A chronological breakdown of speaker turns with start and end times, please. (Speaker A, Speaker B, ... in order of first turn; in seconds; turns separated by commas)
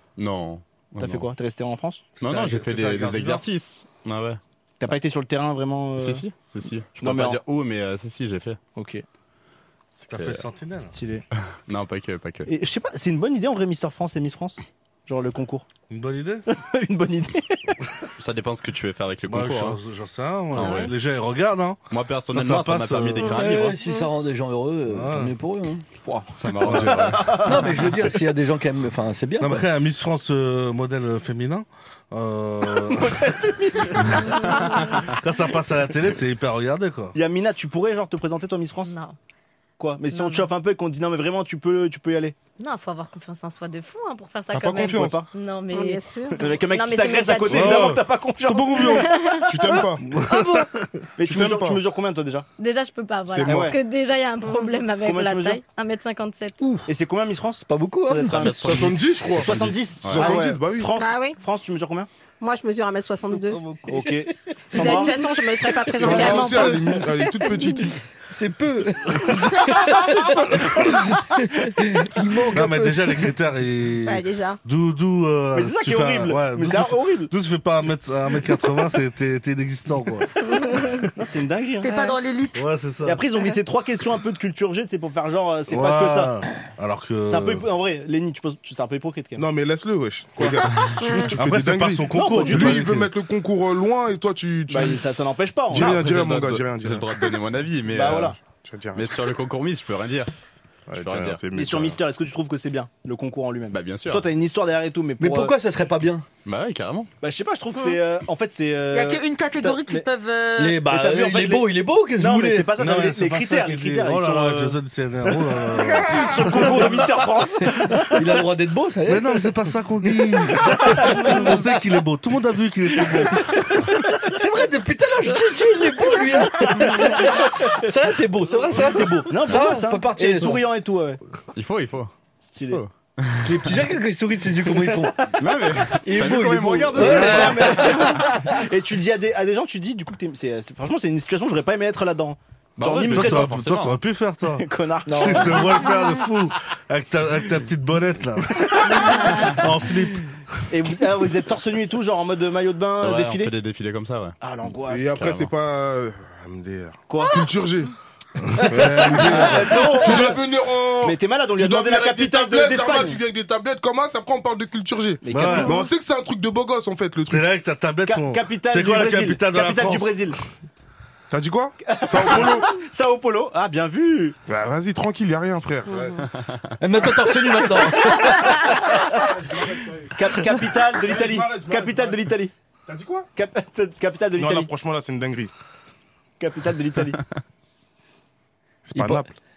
Speaker A: 0.2-1.3, Speaker B: 1.0-2.0, Speaker C: 2.2-3.5, Speaker A: 2.2-4.4, Speaker B: 4.8-6.2, Speaker A: 6.0-8.6, Speaker B: 7.0-7.4, Speaker B: 8.8-9.0, Speaker A: 9.9-10.5, Speaker C: 10.1-10.9, Speaker B: 10.9-11.2, Speaker A: 11.7-12.5, Speaker B: 12.5-15.7, Speaker C: 15.9-16.5, Speaker B: 16.5-17.6, Speaker A: 18.2-19.8, Speaker C: 19.3-21.8, Speaker A: 20.6-20.9, Speaker A: 21.9-23.8, Speaker C: 22.3-23.4, Speaker D: 23.2-25.9, Speaker C: 24.9-25.4, Speaker B: 26.0-27.7, Speaker A: 26.4-27.6, Speaker C: 26.6-27.1, Speaker D: 27.3-29.7, Speaker C: 29.4-33.2, Speaker B: 32.9-35.0, Speaker C: 35.0-37.1, Speaker B: 37.1-39.0, Speaker E: 38.9-39.2, Speaker B: 39.8-42.4, Speaker E: 40.1-40.5, Speaker E: 42.6-47.9, Speaker F: 44.5-45.2, Speaker B: 44.9-45.3, Speaker G: 45.7-46.4, Speaker B: 46.4-49.2, Speaker C: 47.5-49.0, Speaker F: 48.8-50.1, Speaker E: 48.9-50.7, Speaker C: 50.0-51.1, Speaker B: 51.2-52.5, Speaker F: 51.2-51.8, Speaker E: 52.6-56.6, Speaker F: 53.3-53.7, Speaker B: 53.3-53.8, Speaker B: 55.0-55.6, Speaker D: 56.6-56.9, Speaker B: 56.9-62.1, Speaker D: 57.6-58.5, Speaker A: 58.3-60.4, Speaker F: 58.5-60.9, Speaker G: 61.0-61.4, Speaker G: 62.4-63.6, Speaker B: 63.9-65.3, Speaker G: 64.7-67.7, Speaker F: 66.0-68.1, Speaker B: 66.0-66.7, Speaker D: 68.3-73.3, Speaker H: 69.7-70.2, Speaker C: 72.5-80.3, Speaker G: 74.0-74.6, Speaker B: 75.5-77.3, Speaker B: 80.6-82.0, Speaker H: 81.8-82.6, Speaker C: 82.5-83.2, Speaker B: 83.0-86.4, Speaker C: 85.7-87.7, Speaker B: 87.3-89.5, Speaker F: 89.4-95.0, Speaker B: 90.4-90.7, Speaker G: 91.0-91.3, Speaker C: 91.3-93.1, Speaker B: 92.1-93.0, Speaker B: 94.7-96.1, Speaker F: 95.7-97.1, Speaker A: 95.7-98.4, Speaker B: 97.9-98.4, Speaker F: 98.6-99.2, Speaker A: 99.0-100.3, Speaker F: 100.9-102.0, Speaker A: 101.0-101.5, Speaker B: 101.5-105.5, Speaker A: 103.7-104.3, Speaker D: 105.2-106.3, Speaker A: 106.5-107.1, Speaker B: 107.2-110.1, Speaker H: 108.9-110.8, Speaker D: 110.6-112.7, Speaker B: 110.8-114.8, Speaker C: 112.8-117.0, Speaker H: 115.7-116.5, Speaker B: 116.1-118.1, Speaker D: 118.2-119.5, Speaker C: 119.1-123.5, Speaker D: 120.9-121.4, Speaker B: 123.1-123.8, Speaker D: 124.2-130.7, Speaker B: 126.8-127.4, Speaker B: 129.3-131.2, Speaker A: 131.6-132.1, Speaker B: 132.5-132.8, Speaker A: 132.7-133.6, Speaker D: 133.4-135.3, Speaker A: 135.4-137.7, Speaker D: 135.9-138.6, Speaker B: 136.9-143.7, Speaker C: 137.1-137.5, Speaker A: 142.8-144.0, Speaker C: 143.0-150.3, Speaker B: 144.6-145.8, Speaker D: 145.1-145.7, Speaker B: 148.8-149.6, Speaker B: 150.7-153.5, Speaker A: 153.0-154.4, Speaker B: 154.4-155.2, Speaker F: 154.9-157.9, Speaker A: 155.2-155.5, Speaker B: 157.1-157.5, Speaker F: 158.7-167.5, Speaker D: 158.8-159.4, Speaker B: 159.1-160.4, Speaker B: 161.0-163.2, Speaker B: 165.2-165.9, Speaker C: 165.3-165.8, Speaker C: 167.3-170.2, Speaker B: 168.0-170.4, Speaker F: 171.3-172.7, Speaker B: 171.8-174.4, Speaker F: 174.5-176.2, Speaker D: 176.8-179.0, Speaker B: 180.1-182.5, Speaker F: 180.9-182.3, Speaker F: 182.9-183.3, Speaker B: 183.4-184.7, Speaker F: 184.4-185.5, Speaker B: 186.4-187.2, Speaker F: 188.9-189.3, Speaker D: 188.9-189.3